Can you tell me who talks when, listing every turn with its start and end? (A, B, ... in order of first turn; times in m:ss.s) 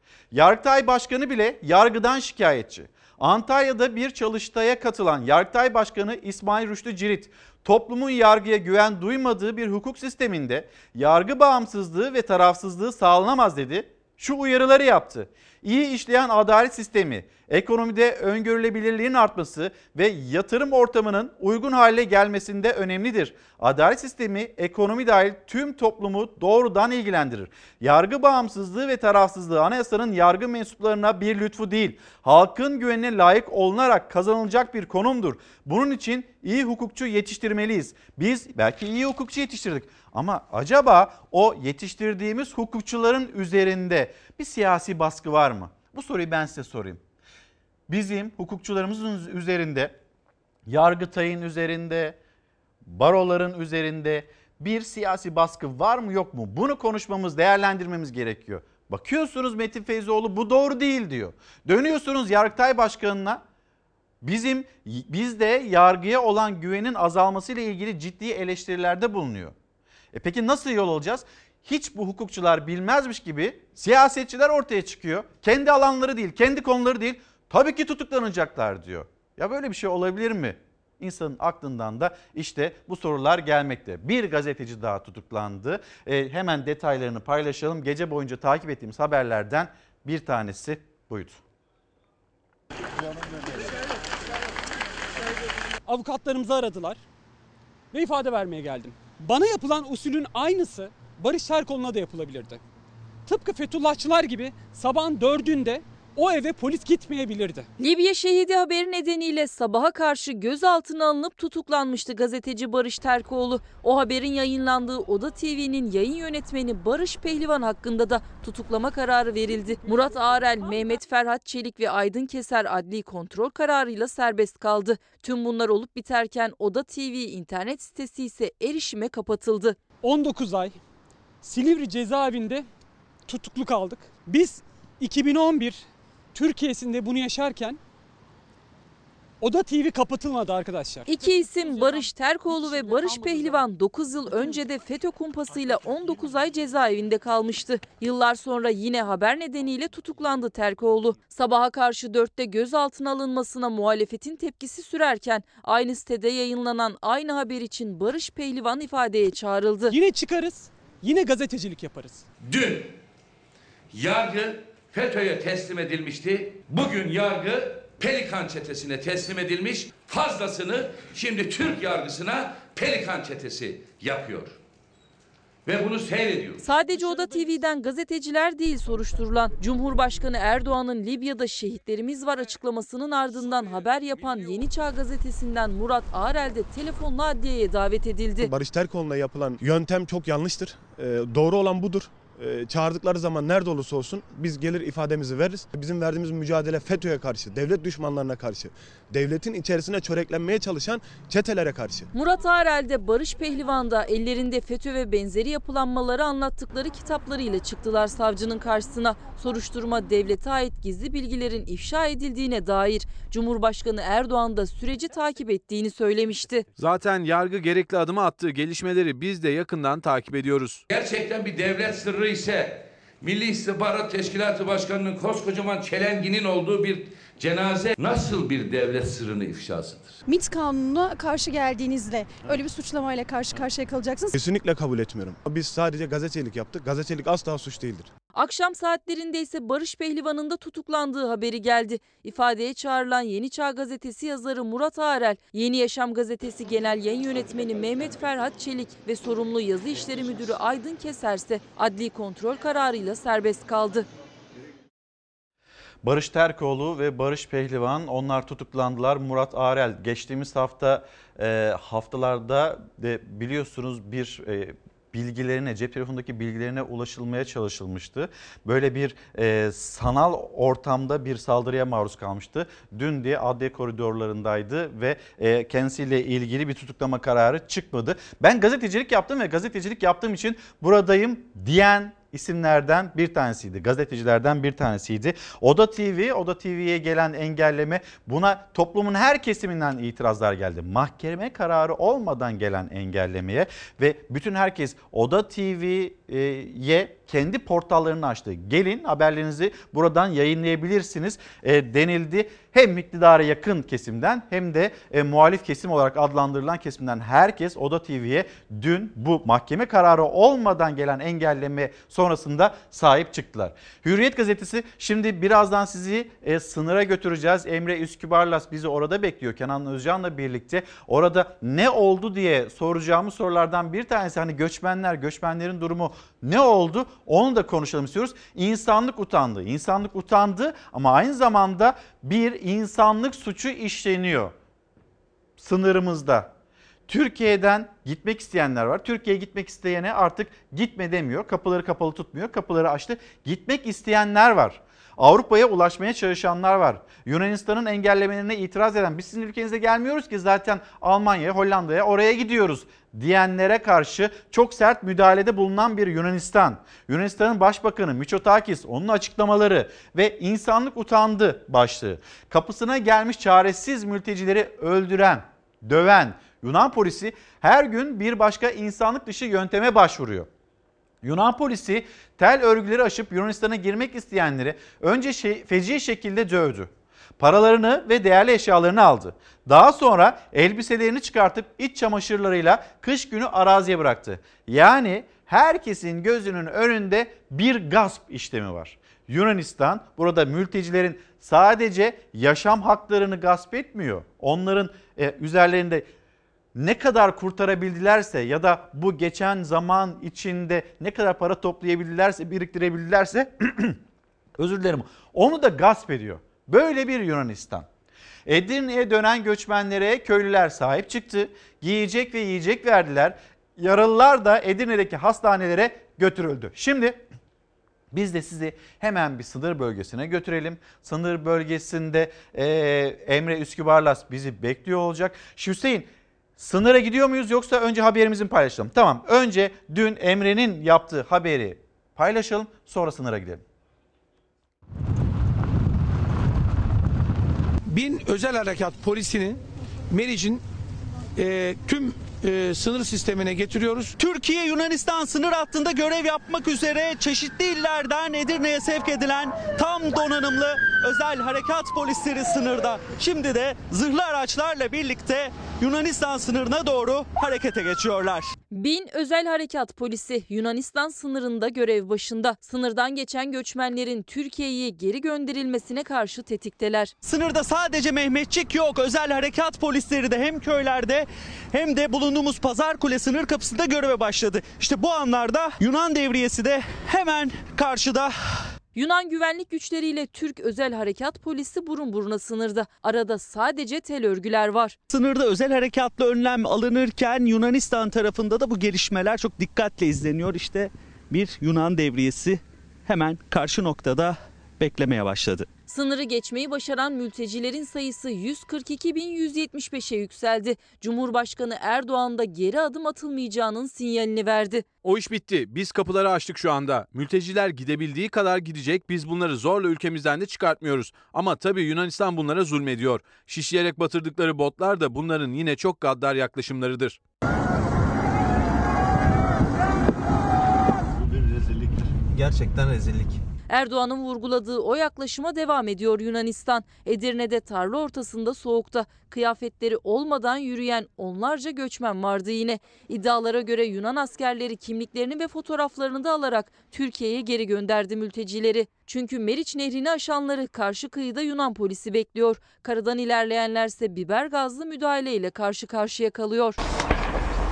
0:00.3-0:47.0 A
0:47.9-0:50.0 A
0:50.7-0:52.2 A
0:52.8-1:03.4 A
1:04.2-1:09.6 A
1:10.1-1:31.4 A
1:35.9-1:37.0 B
1:37.9-1:42.6 B
1:43.3-1:47.7 B
1:47.8-2:09.8 C
2:10.0-2:10.8 B
2:11.4-2:12.7 B
2:13.3-2:17.8 B
2:19.4-2:23.6 B
2:21.1-2:40.0 C
2:39.9-2:42.2 B
2:42.4-2:42.9 D
2:43.9-2:54.6 D
2:55.7-2:56.6 D
2:56.6-3:08.5 C
2:56.9-2:57.6 B
3:08.4-3:22.1 E
3:22.1-3:36.7 C
3:36.8-3:40.8 F
3:40.9-3:50.2 D
3:50.3-3:54.3 G
3:54.3-3:58.1 E
3:58.4-4:14.1 C
4:16.0-5:34.5 A
5:35.6-5:36.5 A
5:37.1-6:10.5 A
6:11.2-6:36.1 A
6:36.8-6:44.0 A
6:44.6-6:47.9 A
6:48.5-6:57.2 A
6:58.1-7:13.6 A
7:17.9-7:20.6 H
7:21.4-7:24.1 H
7:24.2-7:38.5 I
7:38.7-7:47.1 C
7:47.2-7:58.4 I
7:59.0-8:05.0 C
8:05.1-8:15.7 I
8:15.9-8:24.9 C
8:25.0-8:37.2 F
8:41.1-8:43.4 I
8:43.7-9:06.8 C